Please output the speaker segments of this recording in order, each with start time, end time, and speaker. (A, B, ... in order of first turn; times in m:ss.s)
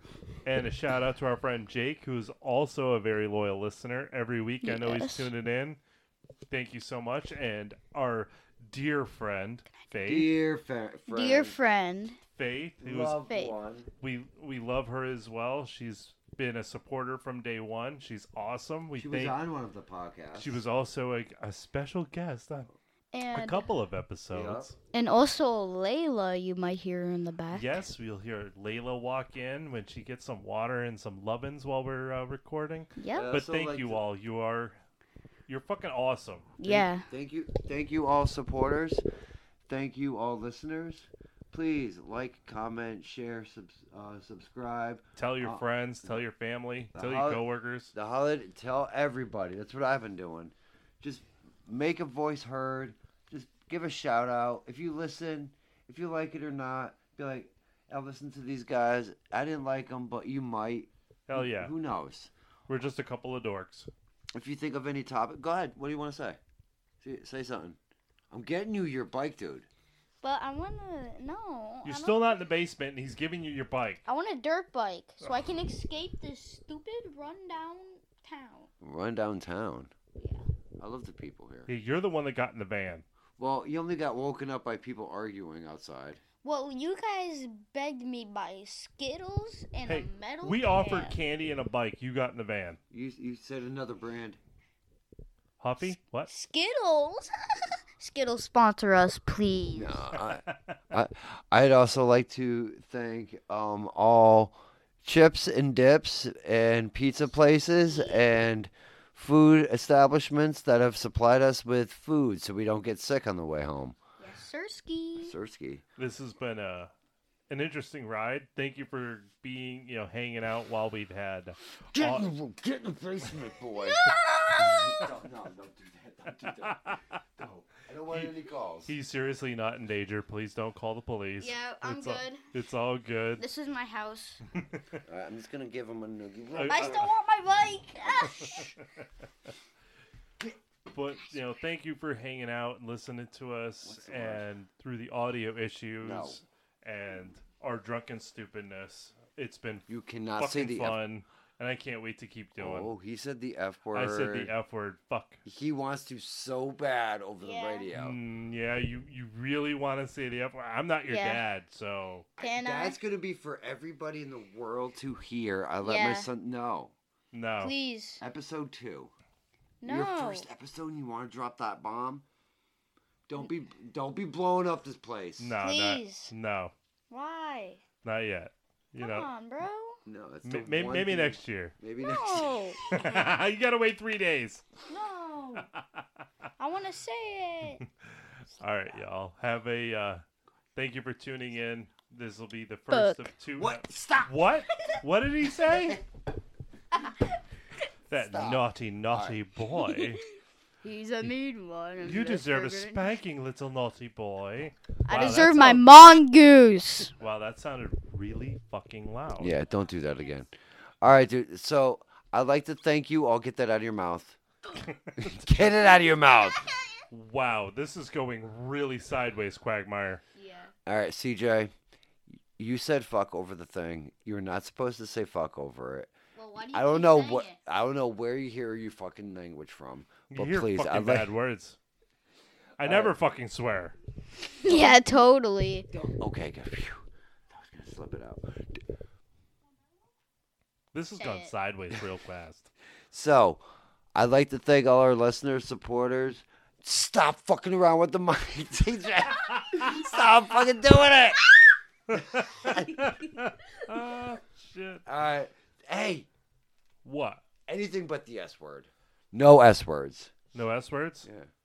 0:00.4-0:05.8 A
0:04.6-0:05.3 B
0:06.5-0:10.3 A
0:10.0-0:11.6 C
0:11.1-0:12.2 B
0:12.4-0:13.2 A
0:12.8-0:13.9 C
0:13.3-0:13.6 B
0:14.0-0:19.4 A
0:19.0-0:20.6 C
0:20.4-0:22.7 A
0:23.1-0:23.7 B
0:23.3-0:24.8 A
0:24.3-0:24.7 C
0:24.9-0:27.8 B
0:27.5-0:34.8 A
0:33.0-0:33.3 B
0:33.1-0:34.0 C
0:35.5-0:36.5 A
0:36.6-0:37.1 B
0:36.6-0:39.0 C
0:39.7-0:46.2 C
0:45.2-0:47.9 A
0:46.9-0:47.4 C
0:47.9-1:02.3 C
1:01.3-1:01.7 A
1:02.7-1:03.9 A
1:04.4-1:06.4 C
1:07.0-1:07.8 C
1:08.3-1:09.7 C
1:10.2-1:12.4 B
1:11.8-1:14.0 A
1:14.1-1:18.7 B
1:18.8-1:19.9 C
1:20.2-1:20.5 B
1:20.8-1:21.7 C
1:21.7-1:23.0 A
1:23.4-1:26.2 C
1:26.4-1:31.2 B
1:29.9-1:32.8 A
1:32.9-1:34.4 C
1:35.6-1:36.3 A
1:36.3-1:37.3 B
1:38.0-1:40.0 B
1:39.7-1:54.0 C
1:40.2-1:40.8 A
1:47.9-1:48.3 B
1:54.2-1:55.4 B
1:55.2-1:55.8 C
1:56.0-1:56.9 A
1:57.5-2:02.3 A
2:01.9-2:08.9 C
2:03.8-2:04.9 B
2:06.3-2:07.2 A
2:08.1-2:08.4 A
2:08.9-2:13.5 A
2:11.4-2:12.4 B
2:13.4-2:14.4 B
2:14.5-2:15.0 A
2:15.1-2:17.1 C
2:16.5-2:17.1 A
2:16.6-2:18.7 B
2:18.3-2:18.8 A
2:20.9-2:32.9 A
2:23.8-2:24.5 C
2:26.0-2:26.4 C
2:29.9-2:31.0 C
2:32.6-2:34.5 C
2:33.9-2:35.4 A
2:35.4-2:38.2 C
2:37.4-2:37.9 B
2:37.9-2:42.3 A
2:41.1-2:41.4 B
2:42.4-2:46.9 C
2:42.4-2:43.0 B
2:45.8-2:46.3 B
2:47.3-2:47.7 A
2:47.6-2:48.2 B
2:48.2-2:49.1 C
2:49.8-2:50.5 B
2:49.8-2:52.2 C
2:53.3-2:55.6 C
2:55.4-2:56.7 A
2:55.6-2:56.3 B
2:57.1-2:57.8 B
2:58.0-2:59.3 A
2:59.0-3:00.0 B
3:00.0-3:02.6 C
3:00.4-3:01.8 A
3:02.0-3:02.9 B
3:02.8-3:04.6 A
3:04.9-3:05.7 B
3:05.7-3:06.0 A
3:06.6-3:07.8 B
3:07.9-3:10.2 A
3:10.8-3:16.0 A
3:12.9-3:13.3 B
3:13.6-3:14.5 C
3:18.1-3:20.2 A
3:18.1-3:19.4 C
3:20.8-3:23.2 B
3:22.0-3:25.9 A
3:25.0-3:27.1 B
3:27.2-3:29.6 A
3:29.4-3:34.4 C
3:34.8-3:35.4 A
3:35.2-3:36.7 C
3:36.5-3:36.9 B
3:37.1-3:40.2 A
3:40.3-3:40.7 B
3:40.9-3:41.7 C
3:42.6-3:46.1 C
3:46.4-3:47.6 B
3:46.7-3:51.3 C
3:50.3-3:51.8 A
3:52.8-3:54.0 A
3:52.8-3:53.2 C
3:54.6-3:55.9 B
3:55.9-3:58.7 C
4:00.9-4:02.7 A
4:01.2-4:01.5 B
4:03.1-4:03.6 C
4:04.2-4:11.5 C
4:09.6-4:10.0 A
4:12.1-4:15.0 A
4:12.6-4:13.0 C
4:15.1-4:16.3 C
4:17.0-4:17.4 A
4:17.7-4:20.3 C
4:20.5-4:21.3 A
4:21.2-4:21.5 C